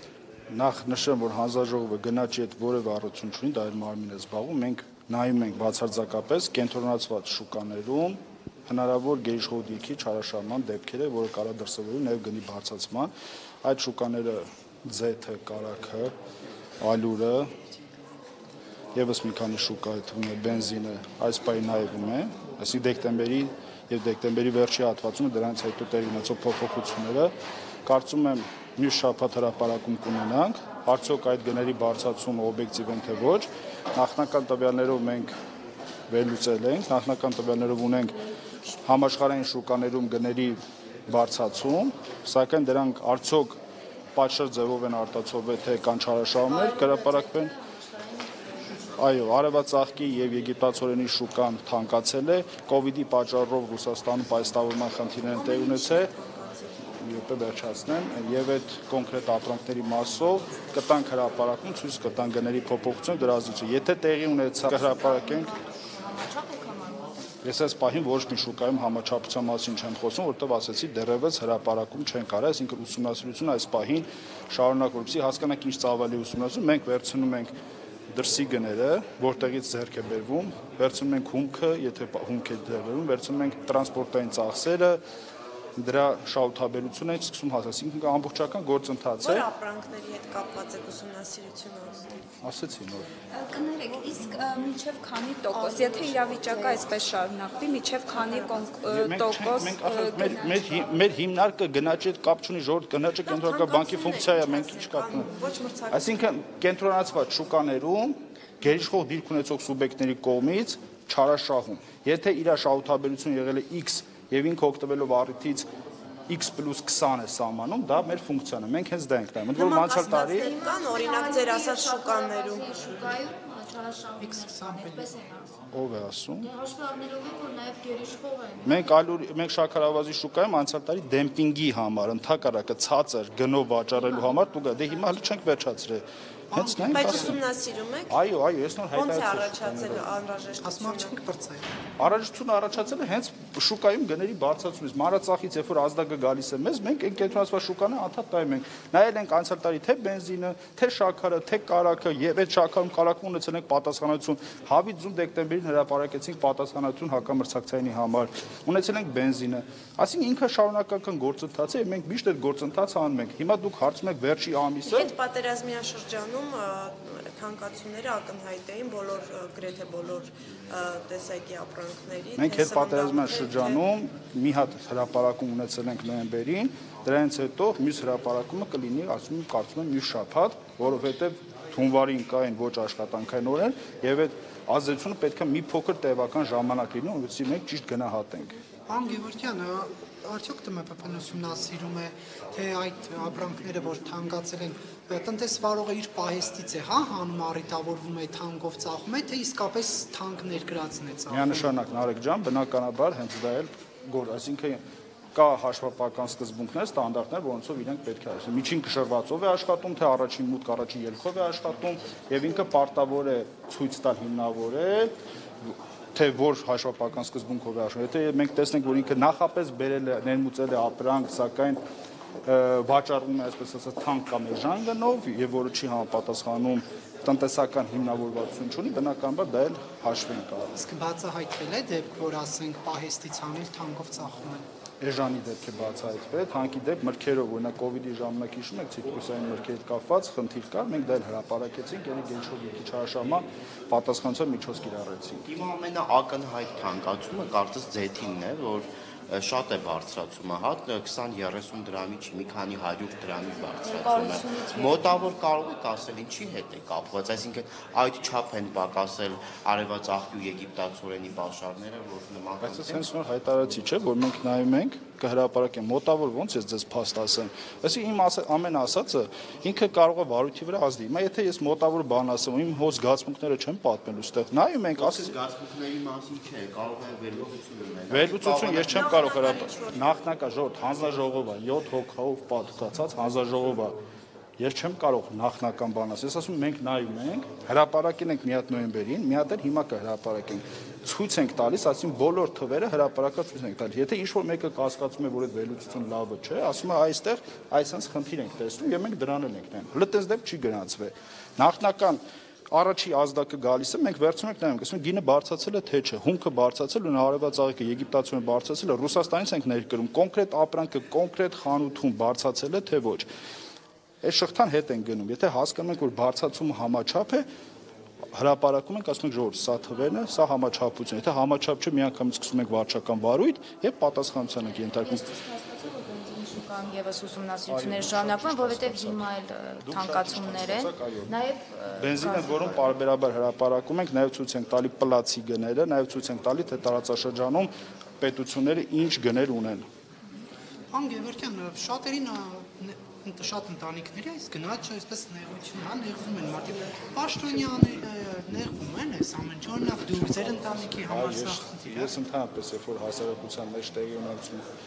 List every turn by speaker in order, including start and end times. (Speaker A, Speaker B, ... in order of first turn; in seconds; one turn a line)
Speaker A: 0.5-13.1
Speaker A: 13.6-16.1
Speaker A: 16.8-17.5
Speaker A: 18.9-27.3
Speaker A: 27.8-35.3
Speaker A: 36.1-38.2
Speaker A: 38.8-43.6
Speaker A: 44.1-47.5
Speaker B: 46.4-48.9
Speaker A: 48.9-56.1
Speaker C: 55.2-56.8
Speaker A: 57.0-65.5
Speaker B: 64.6-67.2
Speaker A: 67.4-77.5
Speaker A: 78.1-85.0
Speaker A: 85.8-89.5
Speaker C: 89.2-92.2
Speaker A: 92.4-93.1
Speaker D: 93.3-100.8
Speaker B: 95.5-96.8
Speaker C: 98.2-98.6
Speaker A: 98.9-105.3
Speaker C: 103.2-106.3
Speaker A: 105.9-115.7
Speaker A: 116.3-120.5
Speaker C: 119.5-122.8
Speaker B: 120.4-125.5
Speaker E: 124.2-125.1
Speaker A: 125.7-126.5
Speaker B: 126.4-128.9
Speaker A: 128.6-137.4
Speaker E: 136.5-137.4
Speaker C: 136.9-138.1
Speaker A: 138.1-140.1
Speaker C: 138.9-141.2
Speaker E: 140.6-141.7
Speaker A: 142.0-165.1
Speaker C: 164.8-173.8
Speaker A: 172.3-188.6
Speaker E: 188.9-201.7
Speaker A: 201.3-204.8
Speaker A: 205.3-221.8
Speaker A: 222.4-230.7
Speaker E: 230.7-234.6
Speaker A: 235.0-245.5
Speaker F: 245.4-263.0
Speaker B: 253.8-255.4
Speaker A: 262.6-275.4
Speaker F: 274.9-279.2
Speaker A: 278.1-284.0
Speaker C: 278.8-280.2
Speaker A: 284.6-313.3
Speaker A: 314.2-317.5
Speaker A: 318.3-325.2
Speaker B: 324.9-332.9
Speaker A: 327.7-329.3
Speaker A: 329.8-331.3
Speaker A: 332.0-339.9
Speaker E: 340.9-352.1
Speaker A: 349.9-354.7